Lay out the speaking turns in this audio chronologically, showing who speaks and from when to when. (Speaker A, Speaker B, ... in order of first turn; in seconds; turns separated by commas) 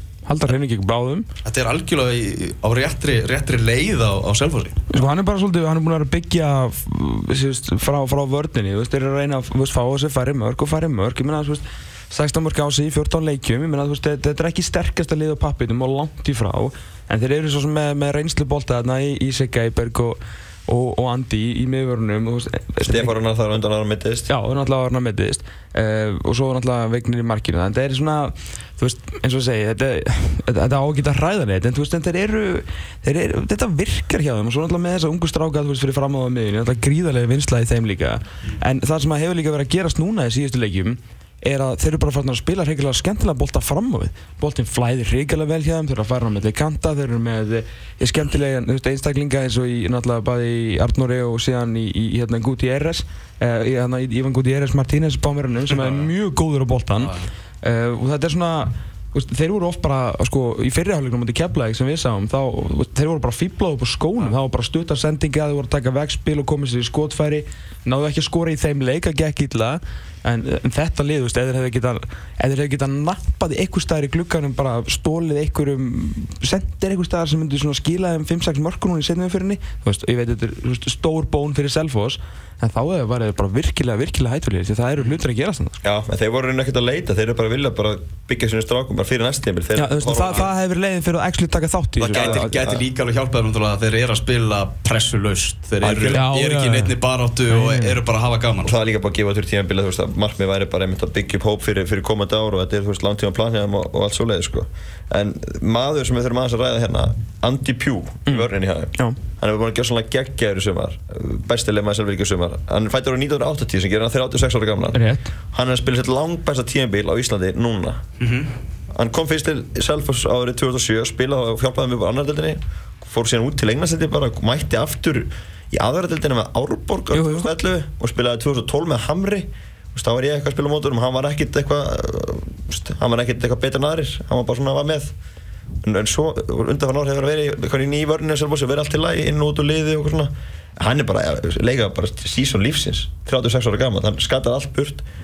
Speaker A: 0.3-1.3, Speaker B: 1.4-4.8, Speaker A: 4.9-23.1, Speaker C: 22.8-24.3, Speaker A: 24.3-85.8, Speaker B: 55.7-56.1, Speaker B: 57.0-57.3, Speaker C: 85.8-90.5, Speaker A: 89.7-92.6, Speaker B: 92.0-98.7, Speaker C: 92.1-92.8, Speaker C: 95.8-96.2, Speaker A: 96.1-97.0, Speaker A: 97.5-98.0, Speaker C: 98.6-115.0, Speaker A: 108.3-109.2, Speaker A: 114.9-115.3, Speaker C: 115.5-118.0, Speaker B: 118.2-118.5, Speaker C: 118.9-135.1, Speaker A: 127.1-127.5, Speaker C: 135.8-145.0